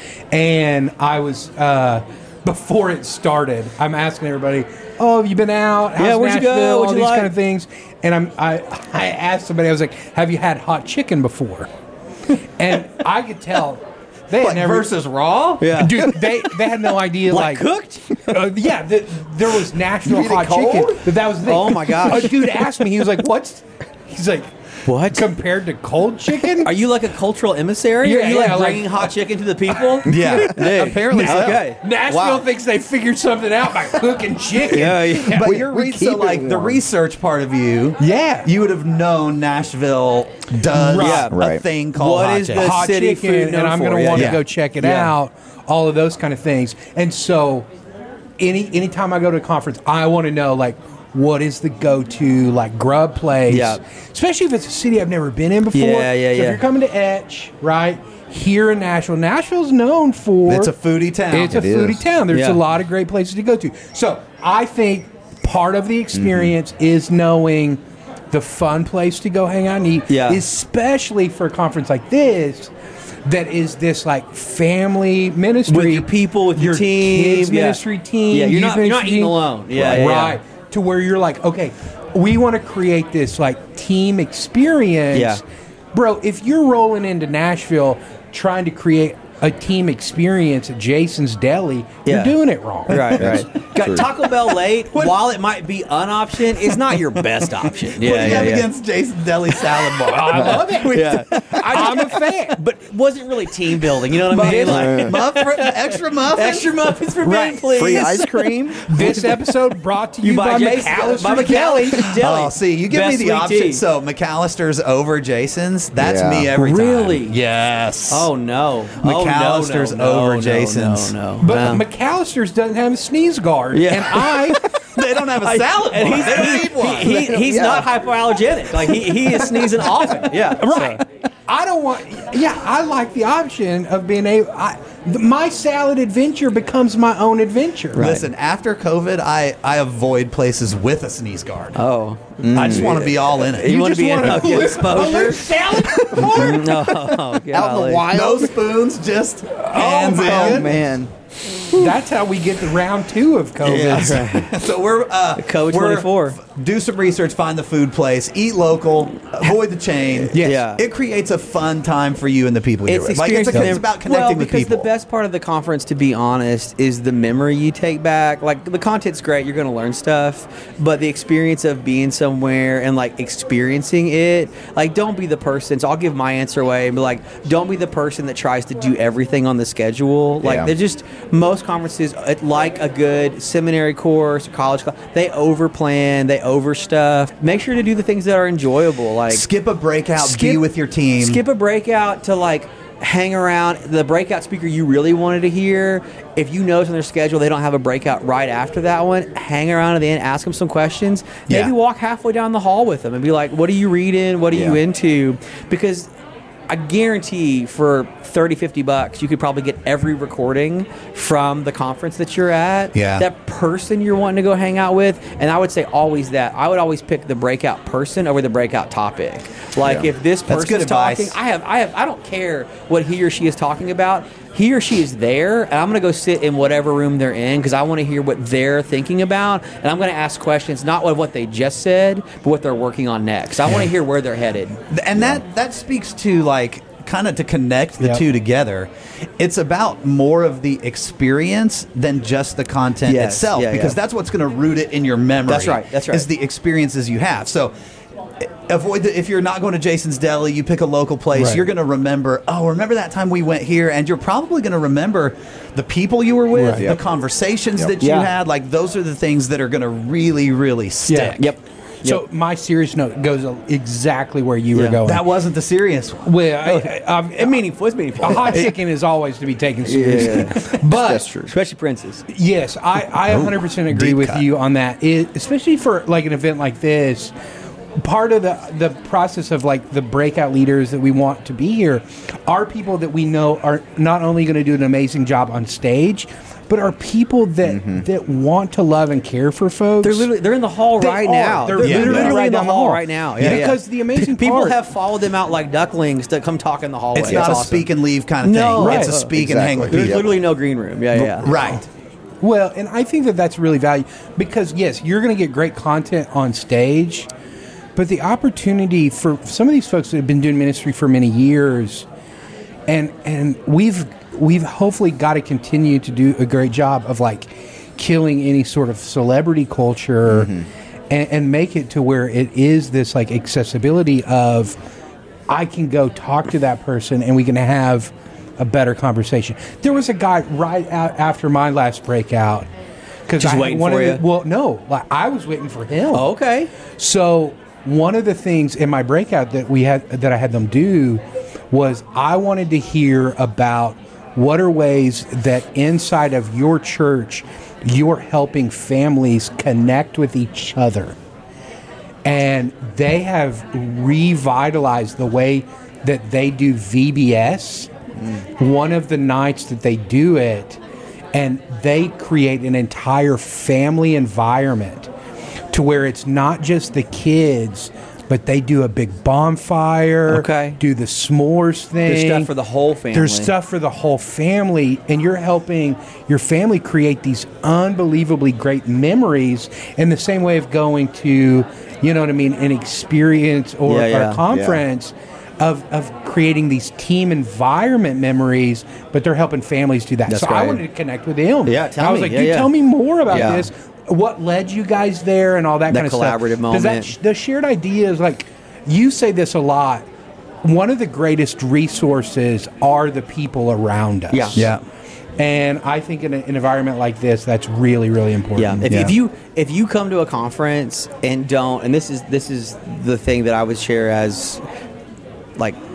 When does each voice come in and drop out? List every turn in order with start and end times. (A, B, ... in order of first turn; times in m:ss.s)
0:00.3-0:11.7 A
0:06.0-0:07.3 B
0:12.6-0:14.9 A
0:14.4-0:15.7 C
0:15.6-0:16.5 B
0:15.7-0:26.7 A
0:17.3-0:18.5 B
0:20.0-0:21.1 D
0:21.4-0:22.5 B
0:24.9-0:25.3 B
0:26.6-0:32.4 B
0:28.0-0:29.1 A
0:29.7-0:35.5 A
0:30.0-0:31.7 C
0:34.7-0:35.5 B
0:35.2-0:42.8 C
0:35.2-0:36.8 D
0:38.0-0:38.5 A
0:40.7-0:41.2 A
0:41.0-0:41.4 B
0:41.3-0:41.6 D
0:41.9-0:45.1 B
0:42.5-0:47.7 A
0:44.1-0:44.4 C
0:48.4-1:00.7 A
0:53.5-0:53.8 B
0:55.7-0:56.6 B
1:00.5-1:01.7 C
1:01.3-1:12.7 A
1:01.5-1:02.0 D
1:02.3-1:02.6 B
1:06.2-1:06.5 D
1:10.1-1:10.4 B
1:13.2-1:25.4 A
1:15.7-1:20.4 B
1:25.1-1:25.4 B
1:25.9-1:33.4 A
1:32.1-1:32.4 B
1:32.9-1:38.7 B
1:33.2-1:34.1 D
1:38.0-1:41.1 C
1:40.1-1:42.6 A
1:40.4-1:49.3 B
1:44.3-1:46.7 C
1:44.4-1:44.7 A
1:44.6-1:45.1 D
1:47.2-1:47.6 A
1:47.8-1:49.2 D
1:48.9-1:52.1 A
1:50.2-1:53.8 B
1:51.9-1:58.3 C
1:56.0-1:56.5 D
1:56.5-1:57.4 B
1:58.1-2:01.8 B
1:59.0-2:01.1 C
2:01.4-2:04.7 A
2:03.7-2:04.8 B
2:04.8-2:07.2 C
2:05.4-2:11.0 B
2:07.0-2:07.9 D
2:10.6-2:18.1 A
2:17.9-2:18.3 B
2:18.0-2:21.8 C
2:21.8-2:25.5 B
2:22.4-2:23.1 D
2:22.5-2:23.8 C
2:23.6-2:27.1 A
2:26.1-2:28.1 B
2:27.5-2:28.6 D
2:28.1-2:30.7 C
2:29.6-2:30.8 A
2:30.1-2:31.1 D
2:31.7-2:34.3 A
2:33.6-2:34.5 B
2:34.0-2:44.9 C
2:35.4-2:36.4 B
2:40.2-2:40.8 B
2:40.3-2:40.6 A
2:42.9-3:09.5 B
3:00.4-3:00.7 D
3:09.3-3:11.4 C
3:10.2-3:10.6 B
3:11.2-3:26.1 B
3:21.5-3:21.7 C
3:24.5-3:24.8 D
3:26.7-3:54.8 B
3:33.0-3:33.3 C
3:39.8-3:40.1 D
3:40.5-3:41.4 C
3:54.9-4:07.7 C
3:55.2-3:55.4 D
4:03.1-4:04.0 B
4:05.5-4:06.3 B
4:08.4-4:21.5 C
4:11.3-4:11.6 A
4:16.5-4:16.9 A
4:18.0-4:18.3 B
4:21.1-4:21.4 A
4:21.4-4:22.2 B
4:22.0-4:25.3 A
4:24.7-4:25.0 B
4:25.0-4:26.3 C
4:26.2-4:27.6 A
4:26.6-4:28.7 B
4:28.2-4:31.2 A
4:29.9-4:31.5 D
4:29.9-4:30.7 B
4:31.5-4:32.2 B
4:32.3-4:37.3 A
4:33.3-4:34.4 C
4:38.0-4:50.3 A
4:47.6-4:48.0 D
4:50.0-4:57.9 B
4:51.0-4:54.8 A
4:51.8-4:52.4 C
4:53.4-4:53.7 C
4:57.1-5:00.3 C
4:57.3-4:57.5 D
4:58.4-4:59.3 B
4:58.8-4:59.2 A
4:59.3-5:00.4 D
4:59.9-5:01.8 B
5:01.1-5:01.8 C
5:02.4-5:07.3 A
5:08.0-5:12.1 A
5:12.9-5:20.5 A
5:20.3-5:20.7 D
5:21.1-5:24.8 A
5:25.5-5:32.7 A
5:33.3-5:36.3 A
5:33.4-5:34.2 B
5:36.1-5:36.7 B
5:37.0-5:51.2 A
5:52.2-5:57.9 A
5:58.6-6:00.8 A
6:01.3-6:05.1 A
6:05.7-6:12.5 A
6:10.3-6:10.8 B
6:12.1-6:13.5 B
6:13.1-6:40.0 A
6:23.9-6:24.4 B
6:24.5-6:24.8 D
6:30.3-6:30.8 B
6:31.7-6:32.7 B
6:33.3-6:33.7 B
6:35.9-6:37.2 B
6:40.6-6:44.7 A
6:44.3-6:44.7 B
6:44.6-6:44.8 C
6:45.4-6:48.9 A
6:48.6-6:54.6 B
6:48.9-6:49.2 C